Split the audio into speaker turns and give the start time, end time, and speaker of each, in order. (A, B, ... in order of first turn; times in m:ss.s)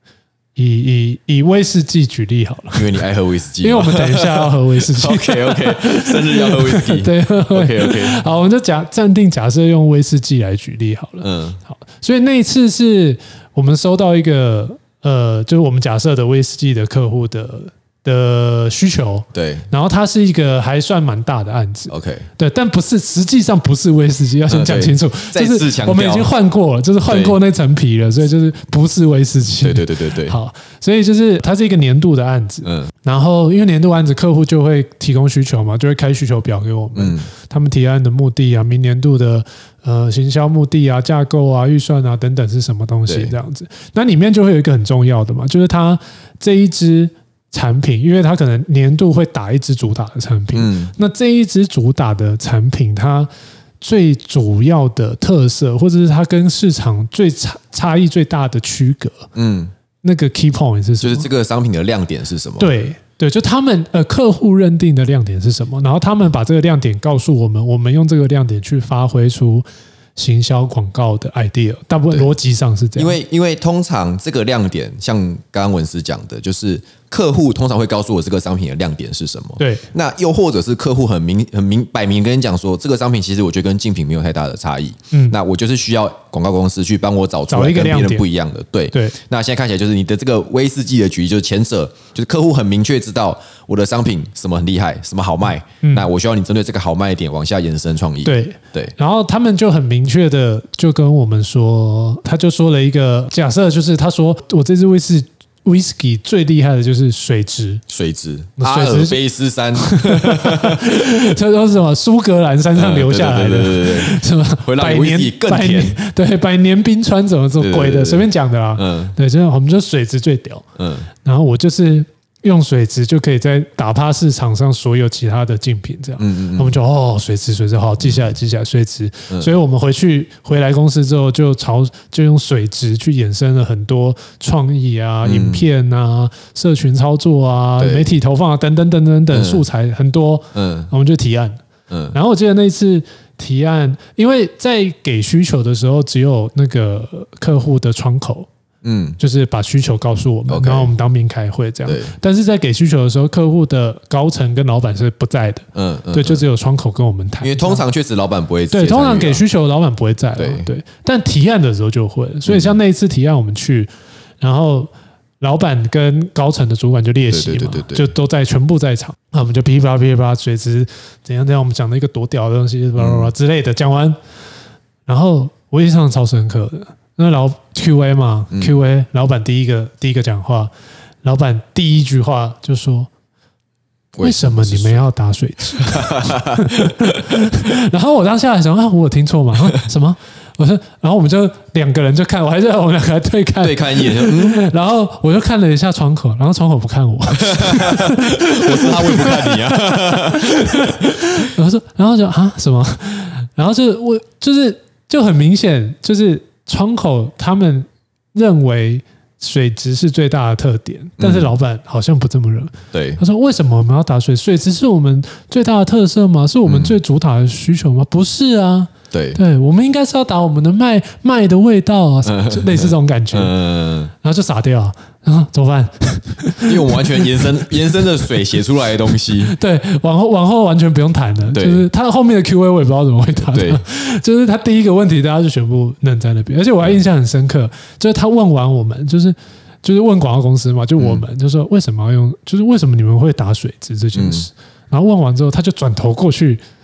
0:00.6-0:02.9 A
0:02.7-0:08.2 B
0:03.6-0:53.3 A
0:11.2-0:11.6 B
0:19.3-0:19.7 B
0:21.9-0:22.3 B
0:24.5-0:26.3 B
0:27.0-0:27.4 B
0:29.6-0:30.4 B
0:32.6-0:32.9 B
0:36.9-0:37.3 B
0:43.1-0:43.3 B
0:50.5-0:50.9 B
0:53.8-0:59.3 A
0:59.3-0:59.7 B
1:00.0-1:01.3 A
1:01.0-1:02.7 B
1:02.6-1:09.6 A
1:10.2-1:13.2 A
1:13.0-1:38.9 B
1:19.6-1:19.8 A
1:25.1-1:25.4 A
1:27.5-1:28.2 A
1:28.9-1:29.2 A
1:35.8-1:36.1 A
1:38.2-1:47.8 A
1:47.9-1:50.9 B
1:48.6-1:49.2 A
1:49.8-2:00.6 A
1:52.7-1:56.0 B
1:57.6-1:59.1 B
2:00.8-2:01.1 B
2:01.2-2:28.5 A
2:06.2-2:06.8 B
2:08.0-2:08.3 B
2:15.2-2:15.6 B
2:17.8-2:18.1 B
2:19.3-2:19.6 B
2:20.5-2:20.9 B
2:21.9-2:22.1 B
2:28.8-2:29.2 B
2:29.2-2:37.8 A
2:30.5-2:30.9 B
2:31.8-2:32.1 B
2:35.7-2:36.4 B
2:37.4-2:39.4 B
2:38.7-2:43.9 A
2:40.4-2:40.7 B
2:42.5-2:42.7 B
2:44.4-2:54.2 A
2:47.3-2:48.1 B
2:53.0-2:53.3 B
2:55.1-3:00.7 A
2:58.5-2:58.8 B
3:01.2-3:03.1 A
3:04.1-3:05.0 B
3:04.2-3:43.5 A
3:05.8-3:07.4 B
3:13.6-3:14.6 B
3:17.4-3:21.0 B
3:31.2-3:31.5 B
3:32.9-3:33.2 B
3:36.6-3:37.0 B
3:39.1-3:39.4 B
3:42.2-3:44.1 B
3:44.2-3:47.6 A
3:46.6-3:49.5 B
3:49.4-4:06.6 A
3:51.5-3:51.8 B
3:53.5-3:53.8 B
4:01.0-4:01.2 B
4:04.1-4:04.5 B